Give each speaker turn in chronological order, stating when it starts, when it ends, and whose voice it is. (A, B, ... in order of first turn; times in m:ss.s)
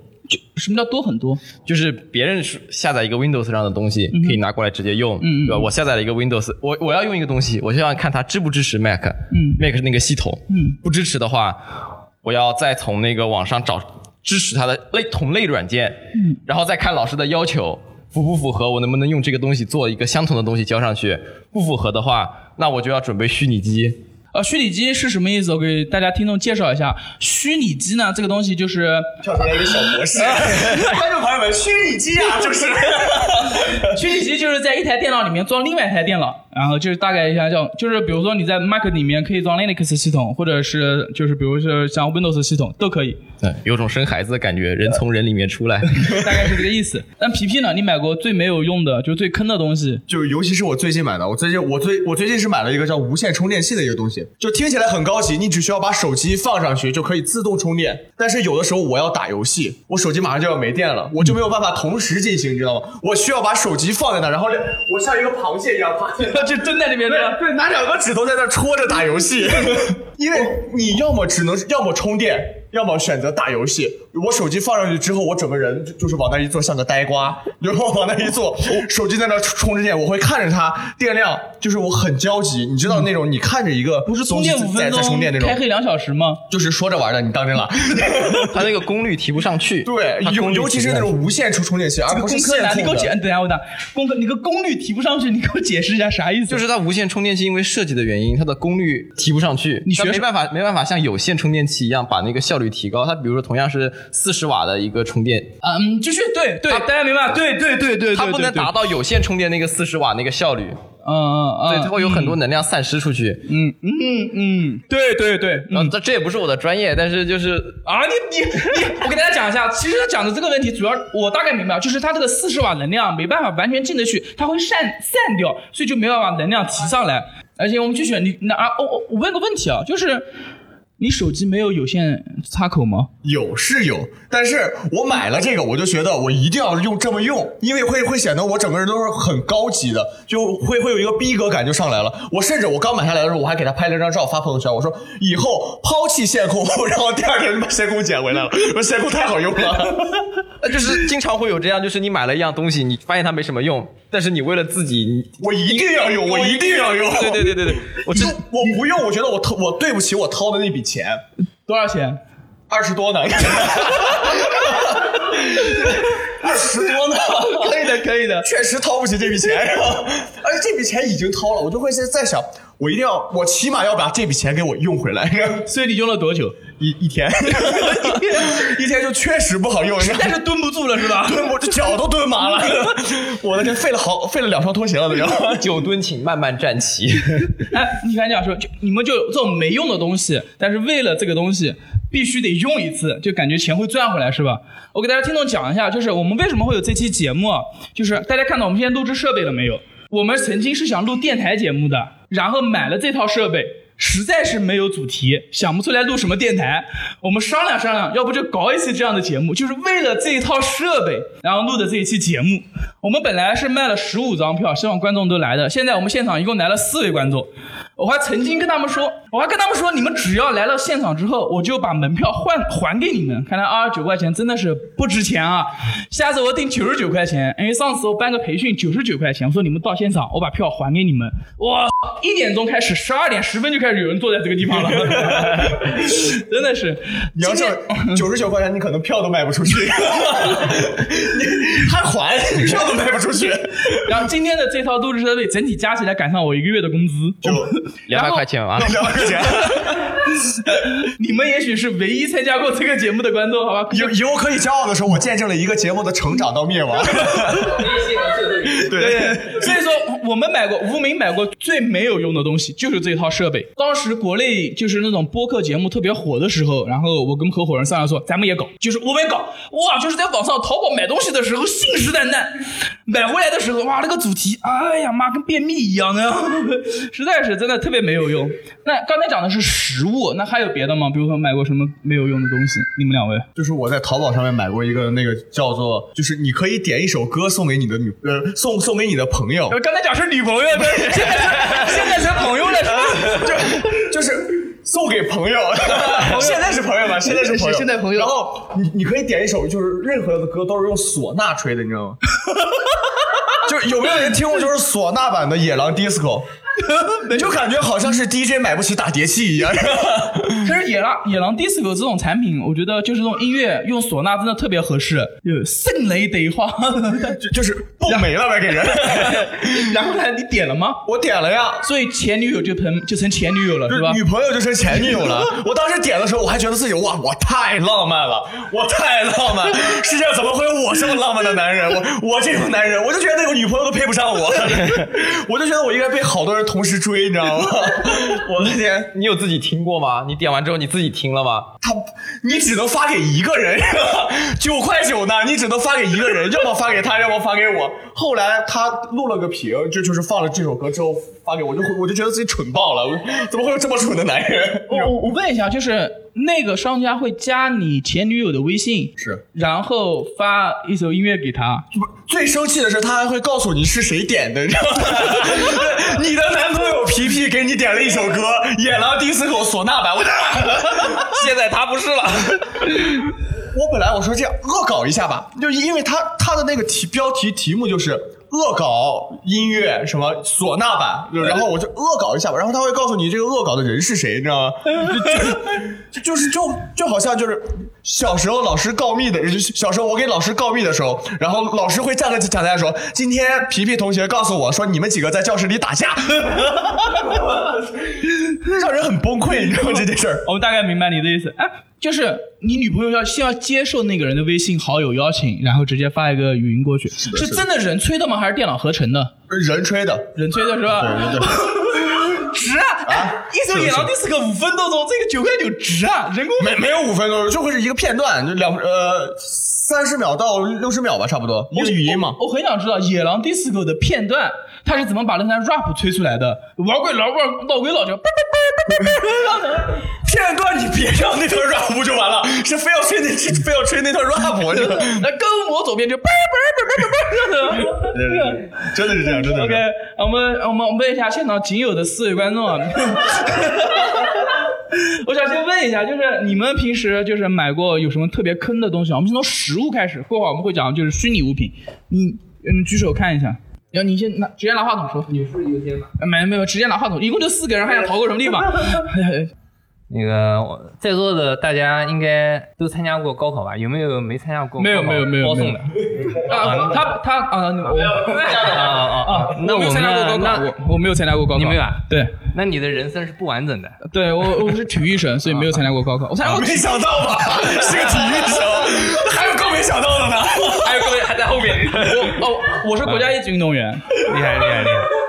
0:00.3-0:01.4 A
0:01.6-0:11.6 B
0:04.1-0:04.4 A
0:05.2-0:05.7 A
0:09.3-0:09.6 A
0:10.5-0:10.8 A
0:12.2-0:24.0 B
0:24.3-0:29.1 A
0:29.2-0:33.9 C
0:30.2-0:30.8 A
0:33.8-0:43.2 A
0:43.4-0:46.1 B
0:46.0-0:50.0 A
0:50.1-1:25.6 C
1:06.2-1:07.4 A
1:24.1-1:26.4 A
1:26.5-1:28.7 C
1:28.5-1:31.1 B
1:29.8-1:33.1 C
1:32.1-1:36.6 A
1:36.5-1:45.5 B
1:39.9-1:40.2 A
1:45.6-1:48.7 A
1:47.9-1:50.8 B
1:51.0-1:52.4 A
1:51.6-1:53.5 B
1:53.5-1:55.9 A
1:55.7-1:57.8 B
1:57.8-2:10.3 A
2:11.0-2:13.1 A
2:13.2-2:30.3 C
2:30.6-2:38.4 B
2:35.4-2:41.2 C
2:41.7-2:42.2 A
2:42.7-2:55.7 C
2:47.4-2:48.5 A
2:55.7-2:56.6 A
2:56.8-3:00.4 C
2:57.5-2:58.6 A
3:00.0-3:01.8 A
3:01.1-3:05.8 C
3:05.6-3:07.6 B
3:07.6-3:58.2 A
3:54.9-3:56.0 C
3:57.4-4:04.0 C
4:04.0-4:09.2 A
4:07.4-4:07.8 C
4:08.1-4:09.0 B
4:08.8-4:10.2 C
4:10.2-4:14.2 A
4:13.9-4:18.0 C
4:18.2-4:18.7 D
4:18.6-4:19.7 C
4:18.8-4:43.5 A
4:43.6-4:49.8 C
4:49.7-4:53.5 A
4:50.8-5:02.2 C
4:55.9-4:58.3 A
5:03.5-5:06.5 C
5:06.8-5:07.5 A
5:07.3-5:10.7 C
5:10.6-5:17.4 A
5:17.4-5:19.6 C
5:18.8-5:21.0 A
5:21.0-5:21.8 C
5:21.8-5:24.2 A
5:23.9-5:39.1 C
5:34.8-5:35.0 B
5:39.1-5:41.7 B
5:41.8-5:55.1 C
5:54.9-6:01.9 A
6:01.9-6:11.5 C
6:11.2-6:12.8 B
6:13.7-6:40.4 C
6:40.4-6:49.3 A
6:47.2-6:47.6 C
6:49.5-6:50.3 C
6:50.4-6:56.8 A
6:50.9-6:51.7 C
6:53.1-6:54.1 C
6:56.6-7:02.4 C
7:01.7-7:10.0 A
7:10.1-7:15.3 C
7:14.7-7:18.7 A
7:17.8-7:19.8 C
7:19.2-7:35.3 A
7:35.3-7:36.1 D
7:36.2-7:39.5 A
7:40.1-7:47.1 D
7:44.8-7:45.8 A
7:46.4-7:52.4 A
7:47.9-7:50.7 D
7:51.6-7:54.0 D
7:54.0-7:56.9 A
7:56.4-8:01.1 C
8:00.8-8:02.3 B
8:00.9-8:02.1 D
8:02.0-8:04.1 A
8:03.0-8:03.3 D
8:04.2-8:05.2 D